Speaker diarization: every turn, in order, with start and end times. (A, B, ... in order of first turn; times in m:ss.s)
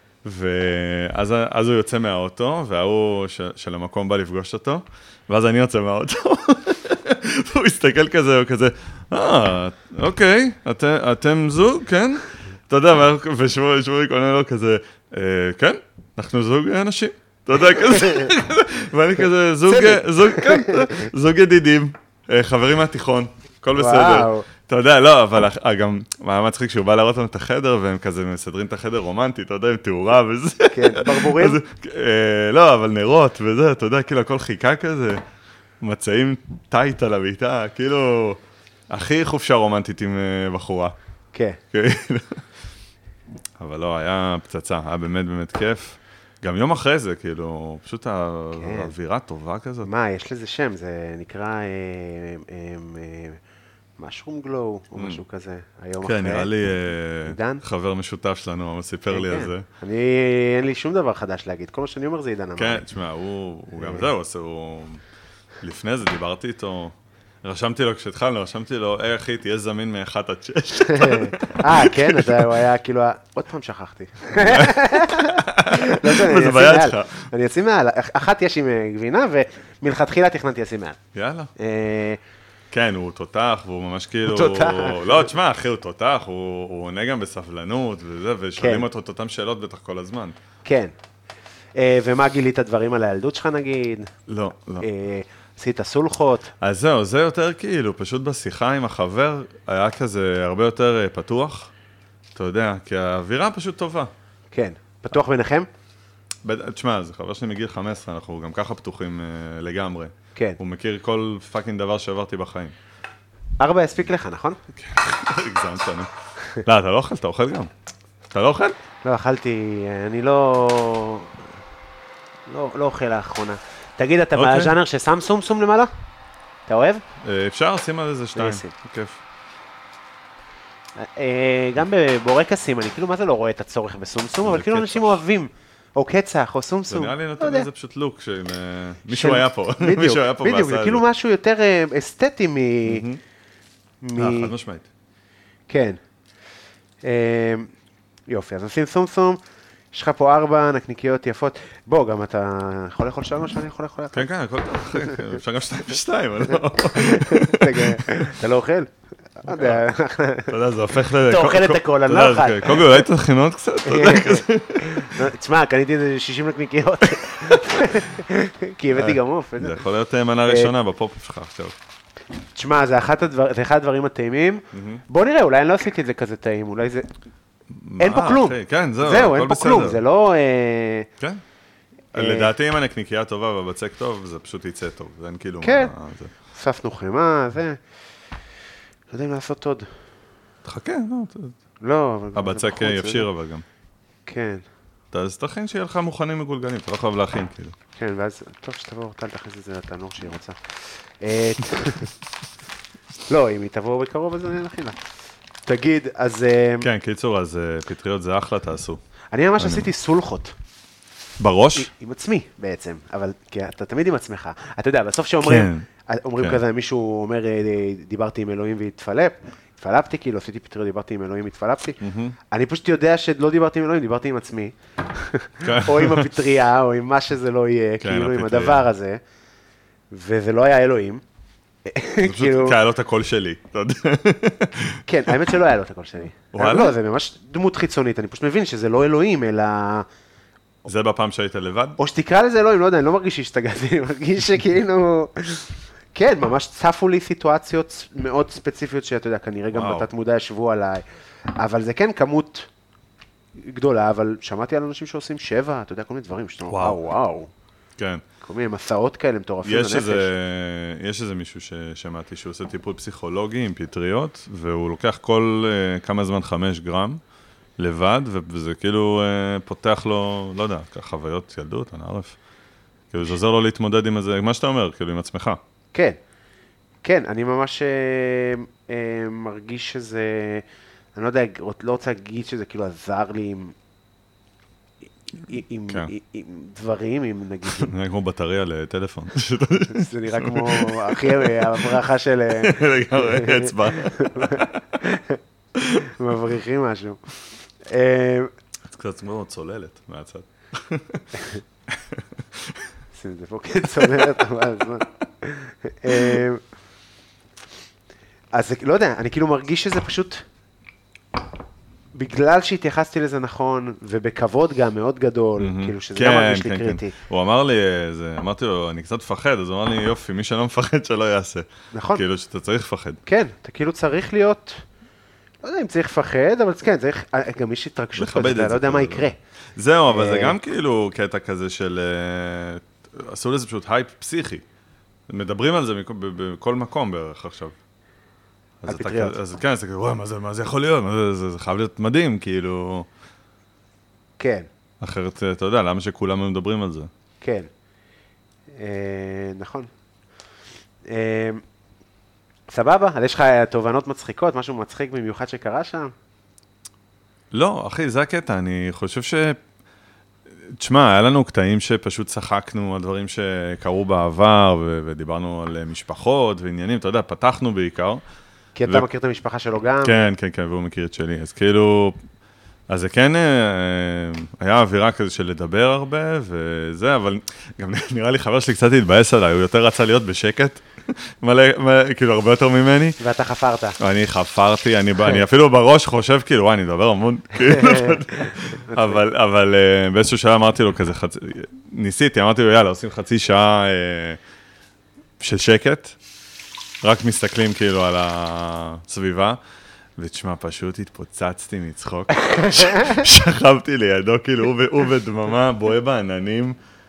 0:00.2-0:35.2 A
0:19.7-0:21.1 B
0:23.8-0:24.5 B
0:30.7-0:31.6 B
0:35.8-0:41.0 A
0:41.3-0:41.6 B
0:41.7-0:42.4 A
0:43.6-0:49.9 A
0:48.6-0:48.9 B
0:49.8-0:53.4 B
0:54.0-0:56.5 B
0:55.0-0:55.2 A
0:56.0-0:59.7 A
0:57.3-0:57.6 B
0:59.1-1:02.8 B
1:02.6-1:05.0 A
1:03.8-1:04.0 B
1:05.6-1:12.6 A
1:10.9-1:21.0 B
1:14.4-1:17.3 A
1:21.2-1:21.5 A
1:21.6-1:22.2 B
1:22.7-1:30.4 A
1:24.2-1:25.3 B
1:28.6-1:28.9 B
1:30.6-1:30.9 B
1:31.8-1:34.1 B
1:34.3-1:34.9 A
1:34.8-1:36.5 B
1:36.6-1:41.7 A
1:42.4-1:44.1 A
1:44.5-1:45.7 B
1:46.4-1:52.8 A
1:53.6-1:54.6 B
1:54.8-1:56.1 A
1:56.6-1:57.7 A
1:58.3-1:58.8 A
1:59.0-2:01.4 B
2:02.5-2:05.9 B
2:04.4-2:04.8 A
2:06.7-2:07.0 B
2:07.2-2:09.2 A
2:08.4-2:08.7 B
2:11.0-2:17.7 B
2:14.4-2:15.2 A
2:16.9-2:21.0 A
2:19.1-2:23.0 B
2:22.9-2:23.2 A
2:24.0-2:24.5 B
2:24.2-2:24.9 A
2:25.7-2:26.0 B
2:27.0-2:27.7 B
2:28.3-2:29.4 B
2:29.9-2:34.3 B
2:34.1-2:38.4 A
2:36.9-2:40.6 B
2:39.5-2:39.8 A
2:40.5-2:45.2 A
2:41.2-2:43.0 B
2:43.9-2:49.8 B
2:47.2-2:47.6 A
2:49.0-2:51.8 A
2:50.5-2:50.7 B
2:52.6-2:57.1 B
2:54.7-2:55.0 A
2:57.7-3:00.0 A
2:58.0-3:01.1 B
3:02.1-3:06.3 A
3:02.2-3:02.5 B
3:05.6-3:05.9 B
3:06.5-3:07.8 B
3:09.1-3:09.9 B
3:10.6-3:11.6 A
3:11.8-3:13.3 B
3:12.4-3:13.6 A
3:14.3-3:14.6 B
3:15.1-3:17.8 A
3:18.0-3:22.1 B
3:23.3-3:25.0 B
3:25.7-3:26.9 B
3:26.8-3:29.0 A
3:29.3-3:30.5 B
3:29.6-3:29.9 A
3:31.4-3:31.9 A
3:31.8-3:42.0 B
3:35.4-3:35.9 A
3:42.0-3:42.4 A
3:42.5-3:49.2 B
3:45.6-3:46.3 A
3:48.0-3:48.9 A
3:50.1-3:51.2 B
3:51.9-3:52.8 B
3:52.2-3:55.0 A
3:55.1-4:00.1 B
3:56.5-3:57.0 A
4:00.8-4:02.0 A
4:02.0-4:11.0 B
4:09.7-4:10.1 A
4:11.6-4:12.7 B
4:13.6-4:17.5 B
4:16.7-4:17.0 A
4:18.0-4:18.2 A
4:18.4-4:20.3 B
4:19.6-4:27.2 A
4:27.8-4:32.4 A
4:33.1-4:35.6 A
4:35.9-4:36.2 B
4:37.0-4:43.8 B
4:45.4-4:47.9 B
4:47.8-4:52.0 A
4:49.9-4:55.4 B
4:52.5-4:54.8 A
4:55.8-4:56.1 A
4:56.0-4:57.2 B
4:57.8-4:58.5 B
4:58.9-5:02.9 A
5:03.1-5:06.6 B
5:04.0-5:04.3 A
5:06.1-5:06.4 A
5:08.5-5:10.4 B
5:12.1-5:17.1 B
5:15.6-5:23.2 A
5:21.9-5:22.2 B
5:23.3-5:24.8 B
5:25.6-5:29.4 B
5:28.2-5:34.6 A
5:30.1-5:30.6 B
5:35.3-5:37.8 A
5:38.8-5:43.1 A
5:38.9-5:39.4 B
5:44.4-5:44.7 B
5:45.0-5:47.1 A
5:47.4-5:47.7 B
5:48.7-5:49.9 B
5:51.0-5:51.6 B
5:52.7-5:56.1 B
5:57.5-5:59.6 A
6:00.7-6:08.2 A
6:08.8-6:10.2 B
6:10.0-6:12.2 A
6:12.9-6:23.2 A
6:23.2-6:24.0 B
6:24.0-6:34.4 A
6:27.6-6:29.2 B
6:35.4-6:36.2 A
6:37.0-6:39.6 A
6:40.2-6:46.8 A
6:42.5-6:43.2 B